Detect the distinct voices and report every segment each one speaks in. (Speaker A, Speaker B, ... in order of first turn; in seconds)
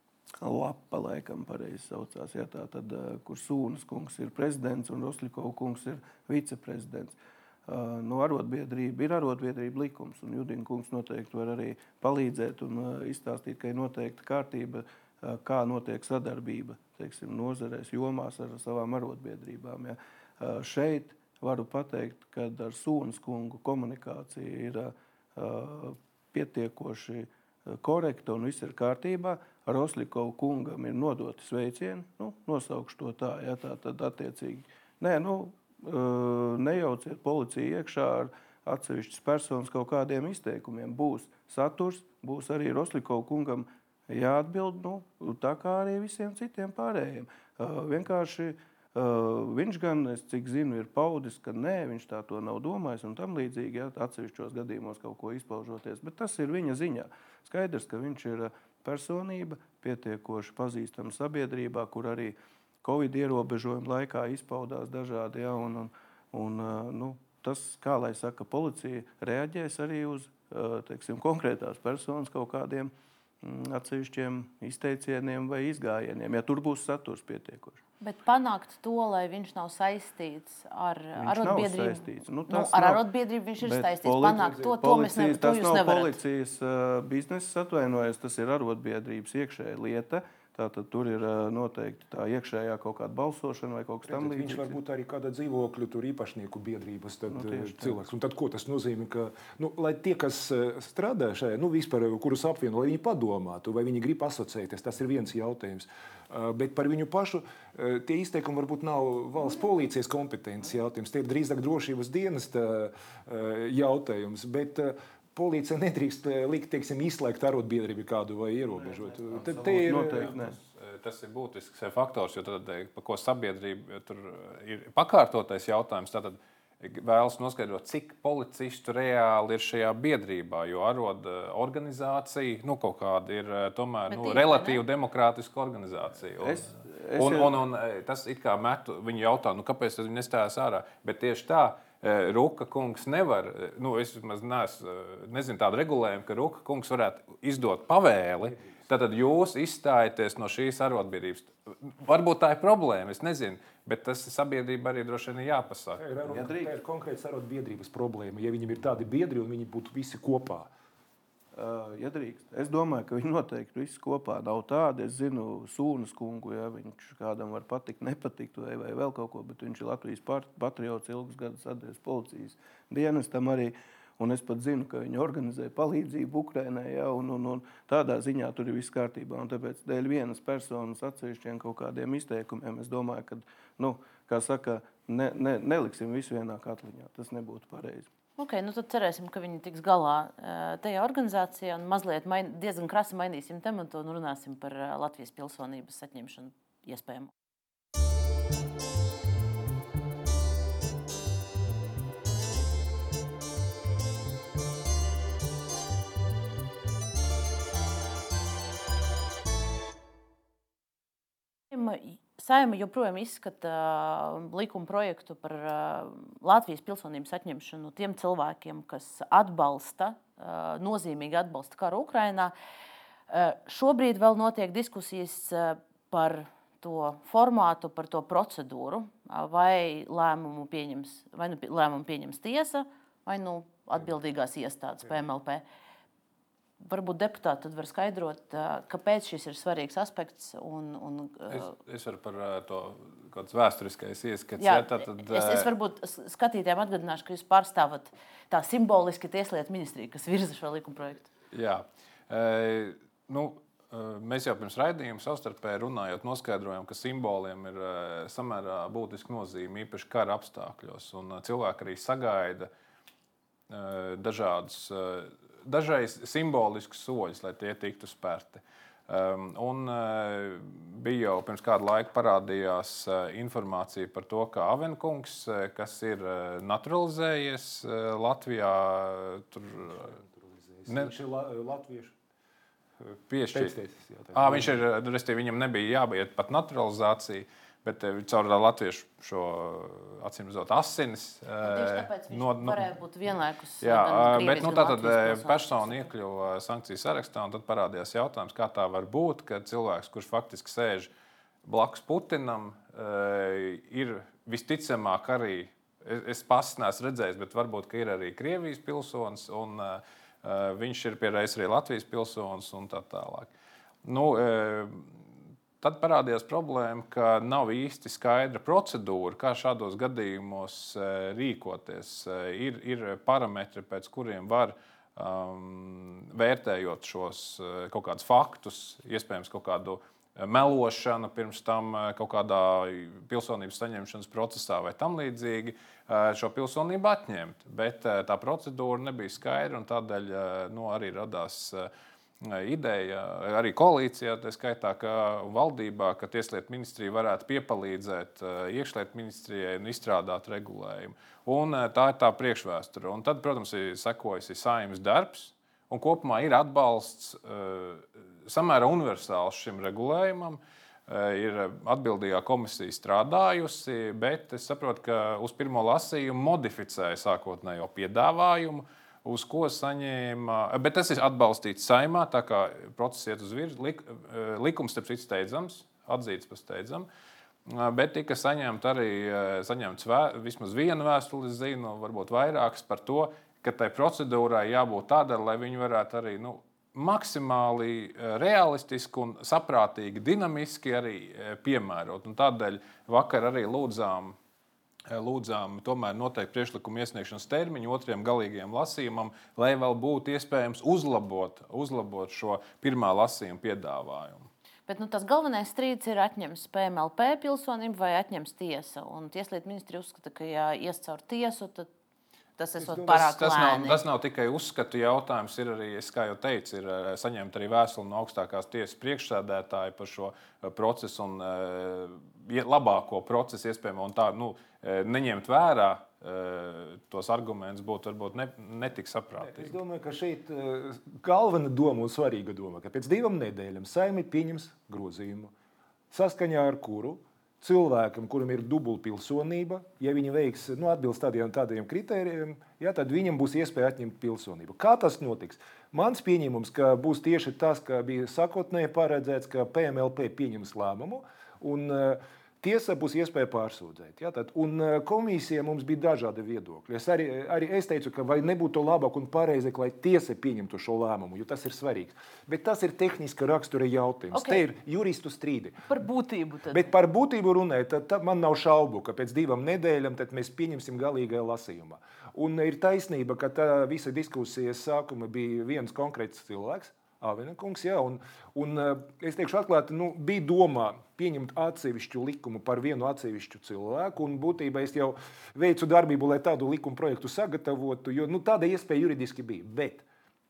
Speaker A: 0.4-77.8, 81.2-83.0, 83.6-94.8, 97.3-98.0, 118.7-120.6, 136.4-137.6, 156.2-156.7, 161.5-188.1
Speaker B: 78.0-86.2, 134.1-134.8, 188.4-197.3, 211.7-222.5, 223.3-235.6, 236.8-241.7, 244.6-251.3, 291.6-296.1, 404.9-411.9, 412.6-414.0, 464.3-464.6, 465.9-466.9
Speaker C: 94.1-120.3, 148.4-148.8, 156.0-160.7, 279.9-282.1, 283.5-284.8, 412.8-413.2, 429.4-435.5, 436.1-465.9, 466.7-490.1
Speaker D: 120.2-156.0, 241.5-245.7, 251.5-262.7, 263.7-280.1, 280.9-281.1, 283.3-283.8, 284.3-292.9, 293.8-301.1, 301.6-313.5, 314.0-315.1, 315.8-341.9, 342.4-377.1, 377.6-394.4, 395.1-404.5, 413.1-429.8